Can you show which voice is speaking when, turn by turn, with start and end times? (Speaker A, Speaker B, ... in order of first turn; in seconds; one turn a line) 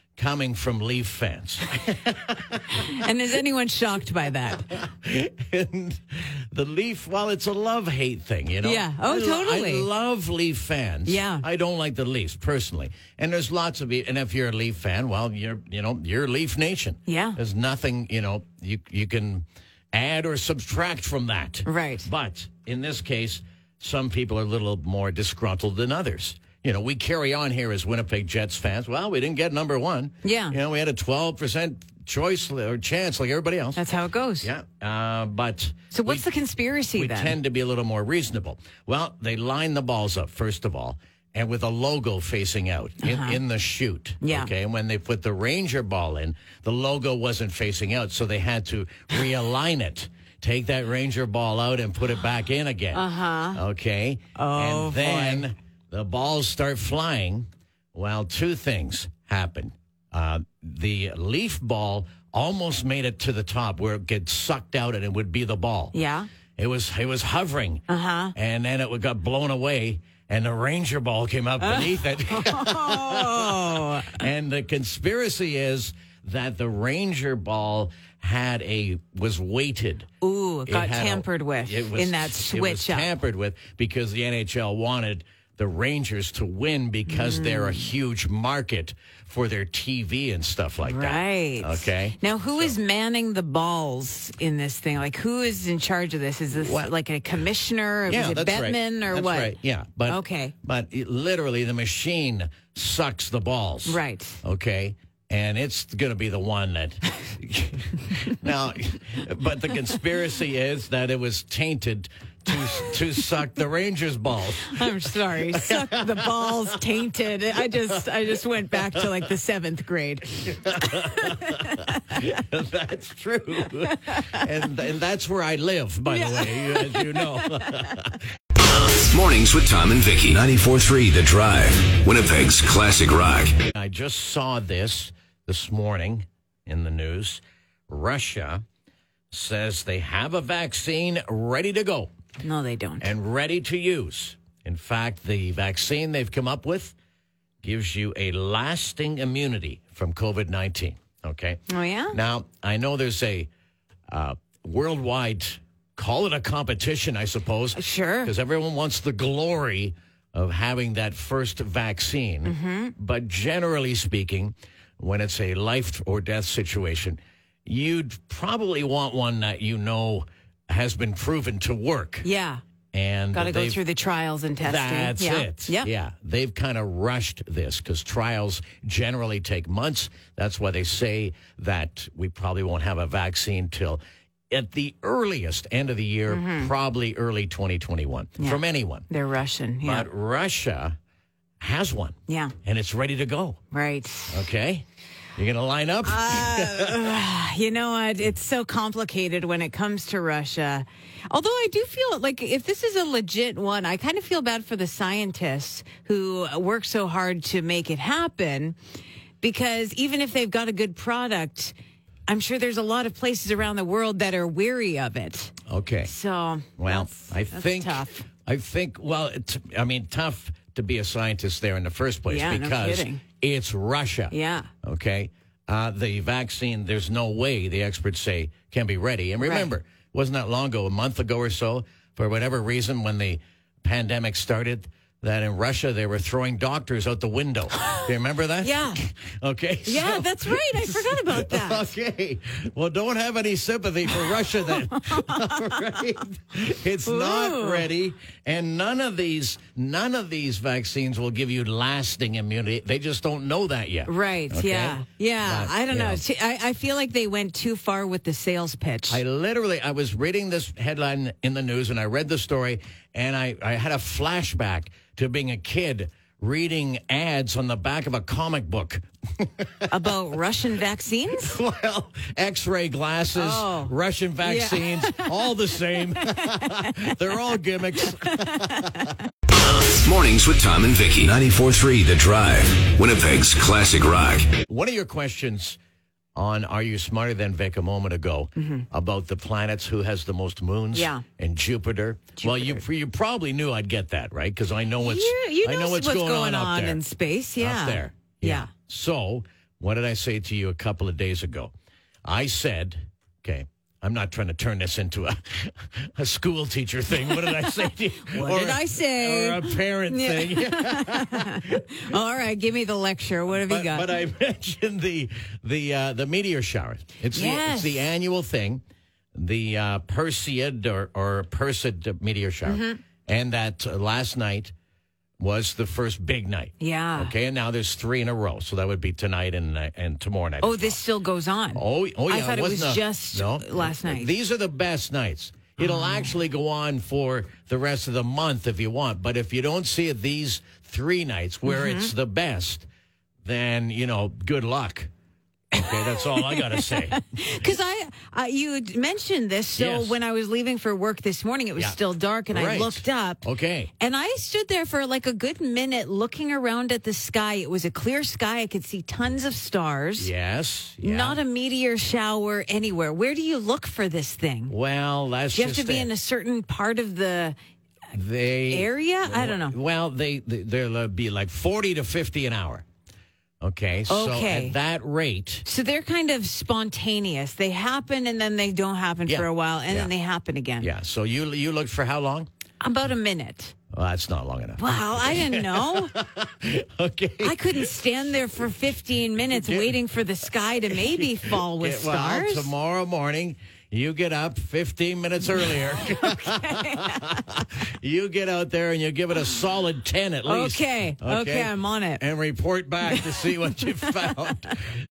Speaker A: 0.2-3.0
Speaker B: 2.7-4.7
Speaker A: 4.7-33.8
Speaker B: 8.6-9.9
Speaker B: 11.1-11.4
Speaker B: 17.1-17.4
Speaker B: 21.6-22.1
Speaker B: 30.2-30.6
Speaker B: 33.8-34.5
Speaker A: 34.4-36.3
Speaker B: 35.9-37.4
Speaker A: 36.9-65.9
Speaker B: 43.0-43.4
Speaker B: 44.2-44.5
Speaker B: 52.9-53.6
Speaker B: 54.4-55.5
Speaker B: 65.9-66.3
Speaker A: 66.6-80.1
Speaker B: 67.9-68.3
Speaker B: 71.6-74.3
Speaker B: 80.2-83.1
Speaker A: 80.7-92.8
Speaker B: 87.1-87.9
Speaker B: 90.8-100.5
Speaker A: 96.5-96.9
Speaker A: 98.1-116.6
Speaker B: 103.8-104.4
Speaker B: 114.6-122.1
Speaker A: 118.8-119.1
Speaker A: 120.4-128.2
Speaker B: 123.8-124.5
Speaker B: 126.1-127.9
Speaker C: 128.8-133.5
Speaker A: 133.5-138.6
Speaker A: 139.3-142.1
Speaker B: 142.4-143.1
Speaker A: 143.0-146.9
Speaker A: 147.6-153.5
Speaker B: 151.7-152.2
Speaker A: 154.1-172.3
Speaker B: 157.7-158.3
Speaker B: 162.4-162.9
Speaker B: 172.2-172.6
Speaker A: 172.9-173.8
Speaker B: 173.3-175.9
Speaker A: 174.6-189.0
Speaker B: 186.3-186.7
Speaker B: 188.4-190.1
Speaker A: 189.8-190.9
Speaker A: 191.6-193.6
Speaker B: 192.3-192.5
Speaker B: 193.7-194.4
Speaker A: 194.3-194.8
Speaker A: 195.3-197.2
Speaker B: 196.0-208.8
Speaker B: 209.4-211.7
Speaker B: 212.3-218.2
Speaker A: 215.7-216.1
Speaker A: 216.8-256.2
Speaker B: 222.3-223.2
Speaker B: 224.3-224.7
Speaker B: 229.4-229.7
Speaker B: 237.8-239.0
Speaker B: 239.8-241.9
Speaker B: 244.2-246.0
Speaker B: 247.0-247.9
Speaker B: 254.1-259.2
Speaker A: 259.1-270.1
Speaker B: 269.9-271.6
Speaker A: 271.4-279.1
Speaker B: 273.3-275.4
Speaker B: 276.2-277.1
Speaker B: 278.0-279.2
Speaker C: 279.8-284.5
Speaker A: 284.5-285.8
Speaker A: 286.4-297.0
Speaker B: 288.6-288.9
Speaker B: 290.9-291.2
Speaker B: 292.4-292.8
Speaker B: 295.0-298.7
Speaker A: 297.6-301.7
Speaker A: 302.2-311.8
Speaker B: 308.3-314.1
Speaker A: 313.5-318.8
Speaker B: 317.3-318.1
Speaker A: 319.4-324.7
Speaker B: 322.6-323.0
Speaker A: 325.4-331.0
Speaker B: 326.8-327.3
Speaker B: 330.6-334.3
Speaker A: 331.7-342.9
Speaker B: 335.8-336.3
Speaker B: 341.6-342.1
Speaker A: 343.4-345.1
Speaker A: 345.7-347.2
Speaker B: 345.7-353.4
Speaker A: 349.8-350.2
Speaker A: 351.8-353.9
Speaker B: 354.0-360.3
Speaker A: 360.2-361.4
Speaker B: 361.0-364.7
Speaker A: 364.7-366.1
Speaker B: 365.5-367.6
Speaker A: 368.1-372.8
Speaker B: 368.7-369.8
Speaker A: 373.6-375.6
Speaker B: 374.1-374.8
Speaker B: 375.6-380.9
Speaker A: 379.3-380.1
Speaker A: 380.8-382.5
Speaker B: 382.8-383.7
Speaker A: 383.9-387.9
Speaker B: 384.8-386.1
Speaker B: 387.4-392.7
Speaker A: 389.3-390.0
Speaker A: 390.8-404.9
Speaker B: 395.6-397.4
Speaker B: 400.4-402.2
Speaker B: 403.1-403.5